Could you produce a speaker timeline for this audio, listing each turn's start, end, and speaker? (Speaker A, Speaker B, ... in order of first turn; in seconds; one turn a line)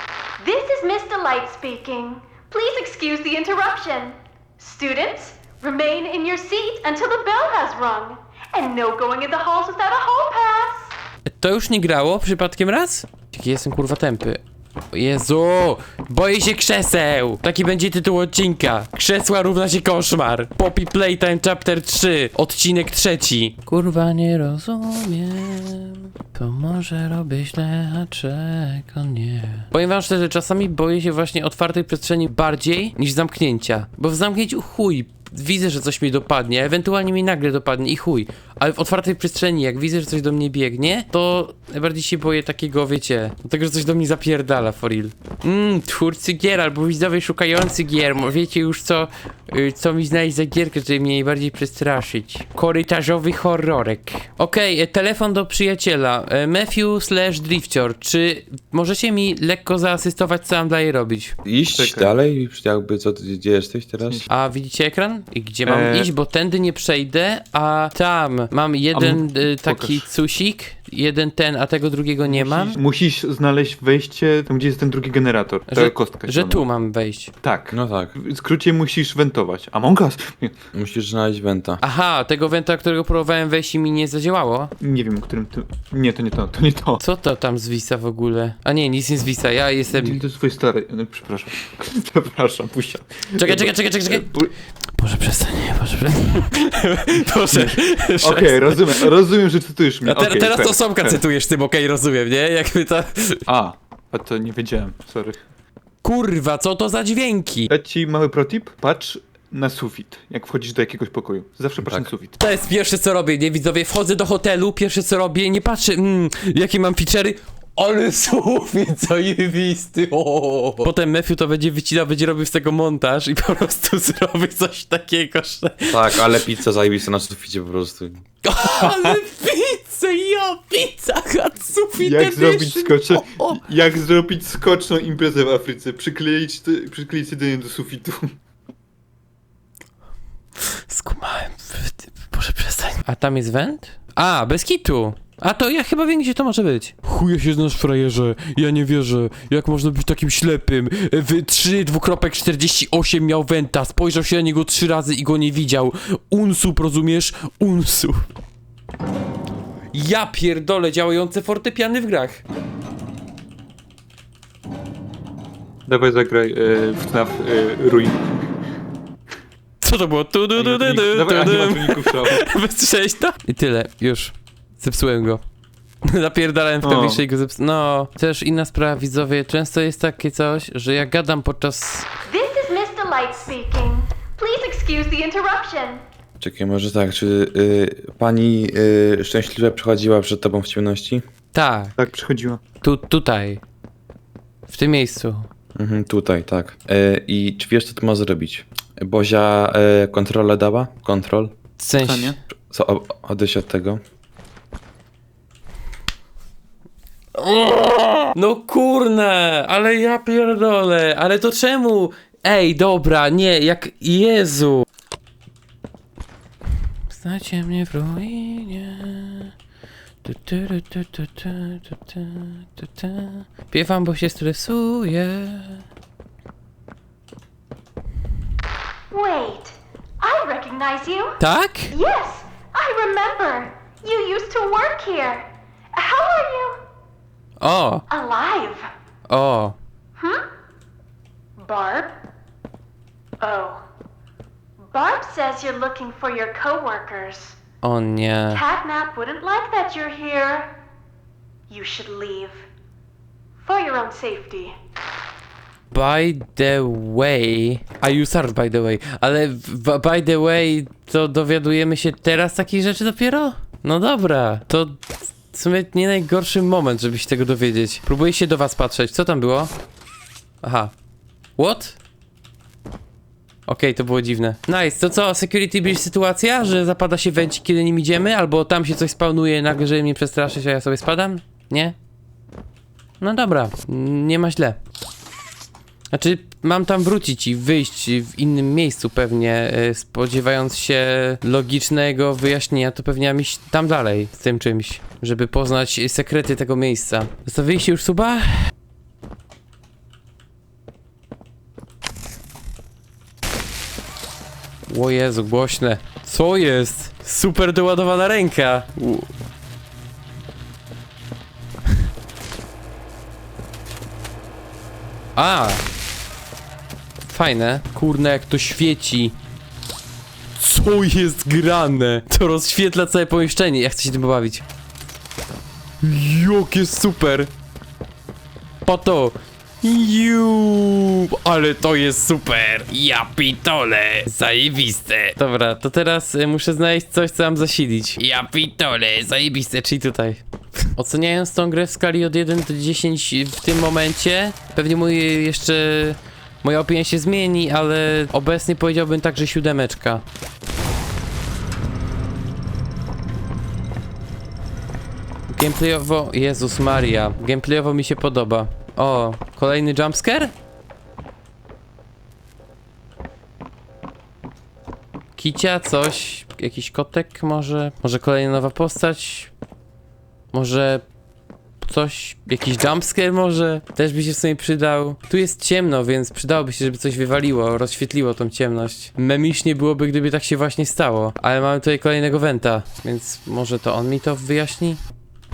Speaker A: 0.4-10.9
Speaker B: 11.3-61.4
Speaker C: 61.5-64.2
Speaker D: 61.7-62.1
Speaker B: 64.3-72.8
Speaker D: 65.7-66.1
Speaker D: 68.9-70.0
Speaker D: 72.2-76.7
Speaker B: 75.7-77.3
Speaker D: 77.4-80.6
Speaker C: 77.7-78.1
Speaker C: 80.7-81.8
Speaker B: 81.8-84.7
Speaker D: 84.8-87.0
Speaker B: 87.0-90.2
Speaker D: 89.9-94.5
Speaker B: 93.3-94.3
Speaker B: 95.0-99.1
Speaker D: 97.5-101.2
Speaker B: 100.0-103.4
Speaker D: 103.5-105.4
Speaker B: 106.0-107.7
Speaker D: 107.7-112.4
Speaker B: 112.4-126.5
Speaker C: 125.9-128.2
Speaker B: 128.4-133.6
Speaker D: 128.7-129.2
Speaker D: 132.0-138.4
Speaker B: 140.9-158.3
Speaker B: 159.9-162.4
Speaker D: 165.9-168.3
Speaker B: 169.8-175.4
Speaker D: 170.6-172.5
Speaker B: 176.1-182.1
Speaker D: 176.8-177.2
Speaker A: 182.3-186.0
Speaker C: 186.4-191.2
Speaker B: 191.5-192.0
Speaker D: 192.0-192.6
Speaker B: 192.8-193.6
Speaker B: 194.7-195.5
Speaker C: 195.8-201.6
Speaker B: 201.8-202.4
Speaker D: 202.0-202.4
Speaker C: 202.7-204.0
Speaker B: 207.4-214.8
Speaker B: 217.1-219.5
Speaker B: 220.2-225.8
Speaker A: 229.1-231.4
Speaker B: 231.4-231.9
Speaker A: 231.9-236.8
Speaker B: 237.6-238.0
Speaker A: 238.1-238.9
Speaker B: 239.3-239.8
Speaker A: 240.2-240.4
Speaker A: 241.6-242.2
Speaker A: 243.4-243.8
Speaker A: 244.9-247.6
Speaker B: 247.8-248.6
Speaker A: 248.5-250.7
Speaker A: 251.7-252.7
Speaker A: 253.6-254.8
Speaker B: 255.9-269.7
Speaker B: 270.6-270.9
Speaker B: 271.6-272.0
Speaker B: 273.7-281.9
Speaker B: 283.2-284.8
Speaker B: 286.1-298.7
Speaker B: 304.9-309.3
Speaker B: 315.4-315.8
Speaker B: 317.3-319.4
Speaker B: 320.6-324.6
Speaker B: 326.0-327.5
Speaker B: 328.9-340.4
Speaker B: 340.9-350.2
Speaker B: 355.5-360.5
Speaker B: 365.4-369.5
Speaker B: 370.5-371.0
Speaker B: 371.8-385.0